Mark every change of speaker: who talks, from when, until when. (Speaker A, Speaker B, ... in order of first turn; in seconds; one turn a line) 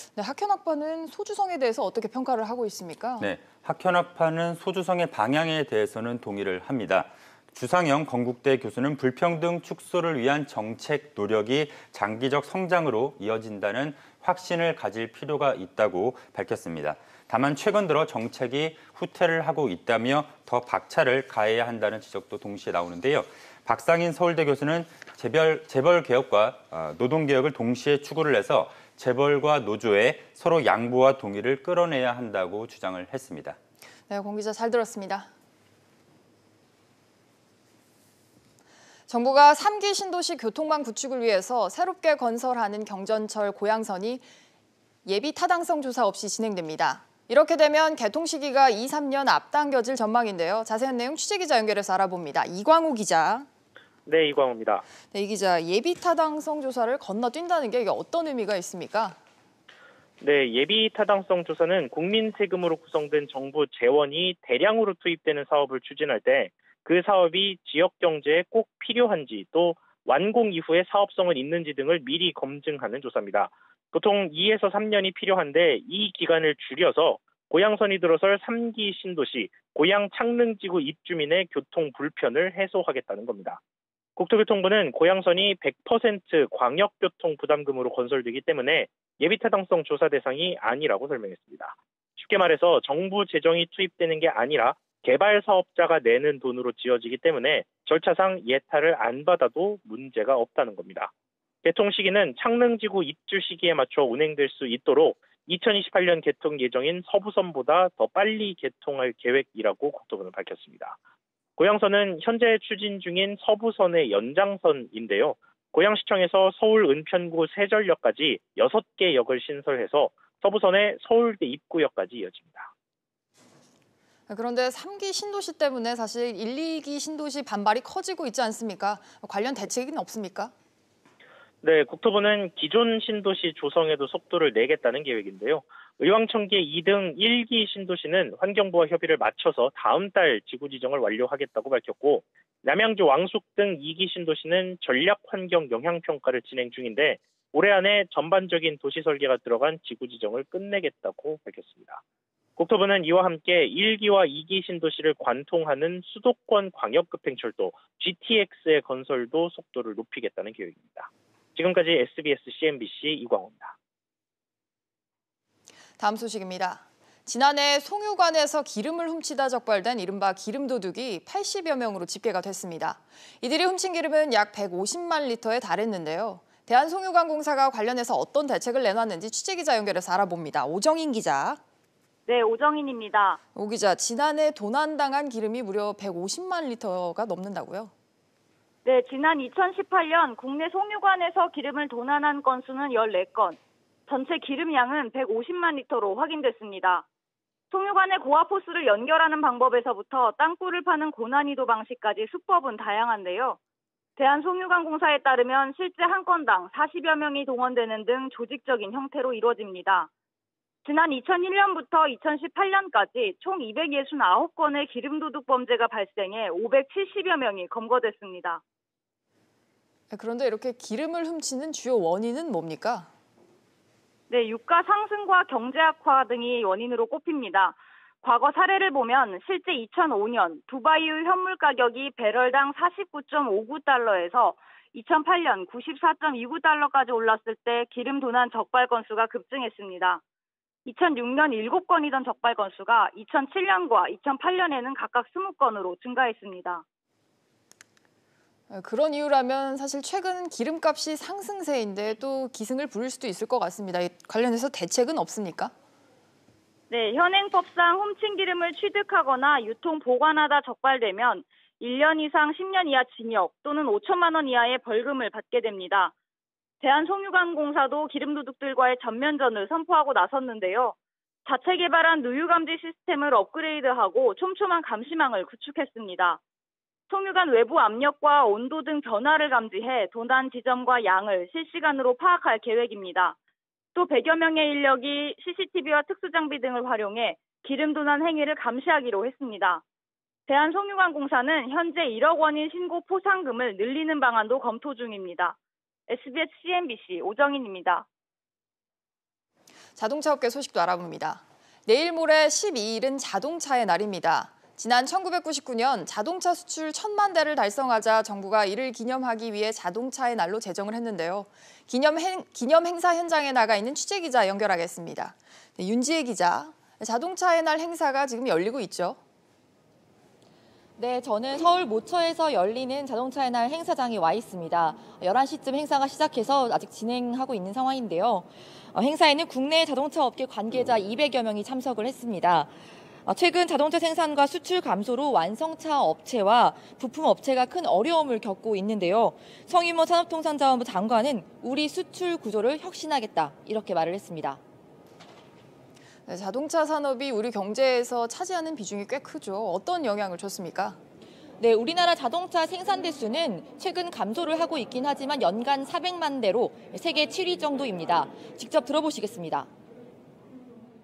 Speaker A: 0.1-3.3
Speaker B: 3.2-33.6
Speaker A: 34.1-35.3
Speaker A: 39.1-44.2
Speaker A: 45.0-53.5
Speaker C: 54.0-54.8
Speaker A: 55.1-59.2
Speaker C: 60.2-83.6
Speaker C: 84.2-101.1
Speaker C: 101.6-111.0
Speaker C: 111.6-122.7
Speaker A: 124.3-130.5
Speaker C: 131.6-152.0
Speaker C: 152.6-163.8
Speaker A: 166.0-181.6
Speaker D: 182.3-183.4
Speaker A: 183.5-187.9
Speaker D: 188.8-197.0
Speaker D: 197.7-203.6
Speaker D: 204.2-210.1
Speaker D: 210.8-218.6
Speaker A: 220.1-223.1
Speaker D: 224.3-240.2
Speaker D: 240.8-246.8
Speaker A: 248.7-255.7
Speaker D: 256.9-266.1
Speaker D: 266.8-276.4
Speaker D: 277.1-283.4
Speaker D: 283.9-289.8
Speaker D: 290.5-295.6
Speaker D: 296.1-298.1
Speaker A: 300.0-319.2
Speaker E: 321.0-332.7
Speaker E: 333.2-344.6
Speaker A: 346.3-351.0
Speaker E: 351.6-359.7